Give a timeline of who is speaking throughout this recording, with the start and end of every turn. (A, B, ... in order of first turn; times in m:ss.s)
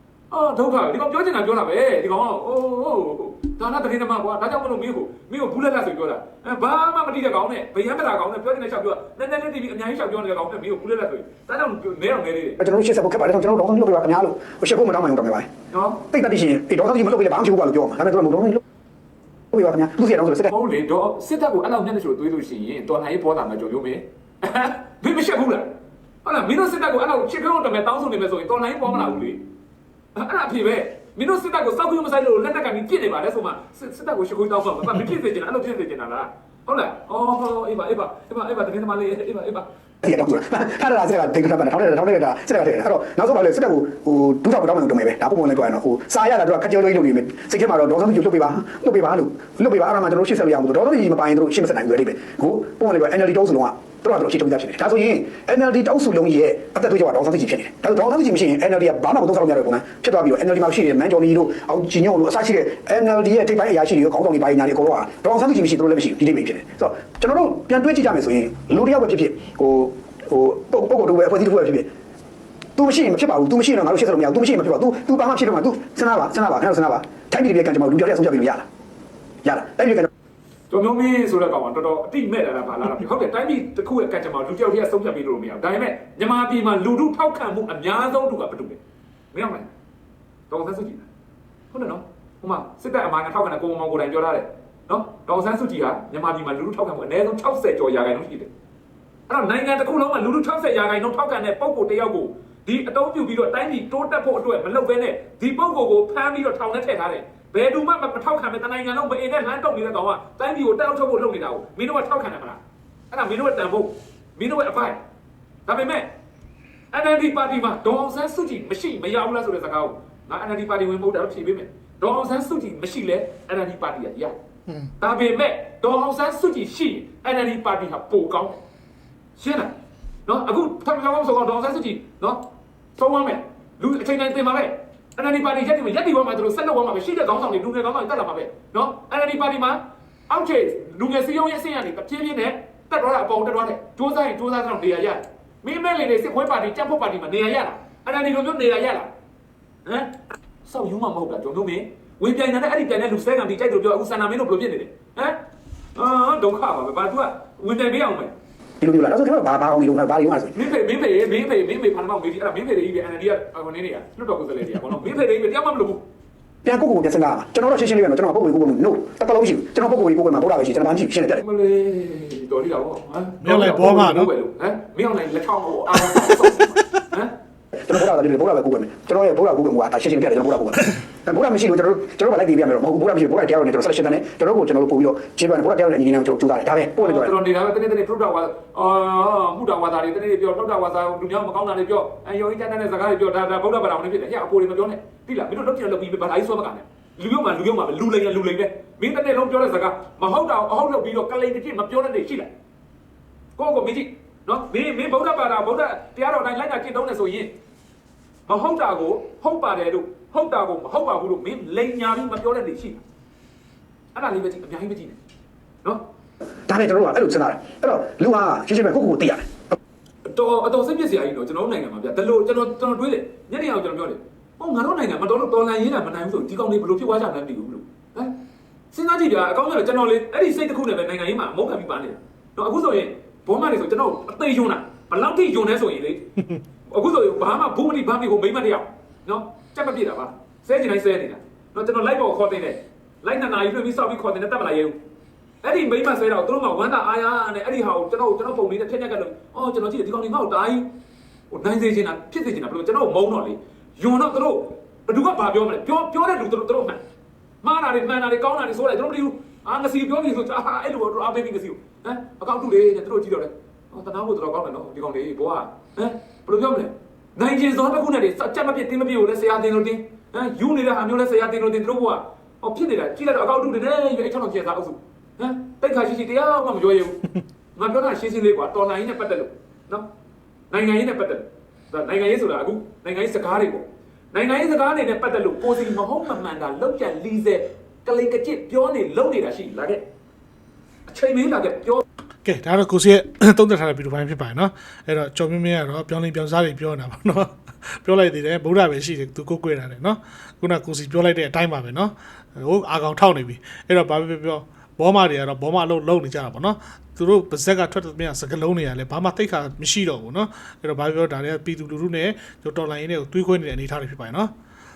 0:00.3-0:12.6 A
0:12.6-0:15.5 B
0:15.7-0:16.0 A
0:16.1-0:18.6 B
0:19.5-0:20.5 B
0:20.5-0:25.7 A
0:26.2-0:29.4 A
0:30.1-0:39.7 A
0:40.0-1:11.9 B
1:12.8-1:18.7 B
1:19.4-1:20.1 B
1:20.7-1:28.8 A
1:29.3-1:29.7 A
1:30.5-1:31.1 A
1:31.7-1:38.5 A
1:39.3-1:55.0 A
1:55.6-1:56.1 A
1:56.9-2:04.3 A
2:05.0-2:08.6 A
2:09.4-2:09.7 A
2:10.2-2:29.1 A
2:29.8-2:35.4 A
2:35.9-2:38.3 A
2:38.8-2:40.6 B
2:40.6-2:46.0 A
2:46.6-2:51.4 B
2:51.4-2:57.3 A
2:53.4-2:54.3 C
2:57.7-3:07.4 B
3:07.0-3:22.5 A
3:23.6-3:27.5 A
3:28.5-3:33.0 A
3:34.1-3:35.2 A
3:36.7-3:39.8 B
3:40.2-3:48.4 A
3:48.9-3:56.3 A
3:56.9-4:05.0 A
4:05.6-4:10.9 A
4:11.5-4:17.0 A
4:17.6-4:40.1 A
4:40.7-4:50.0 A
4:51.1-4:52.0 A
4:52.4-5:14.5 C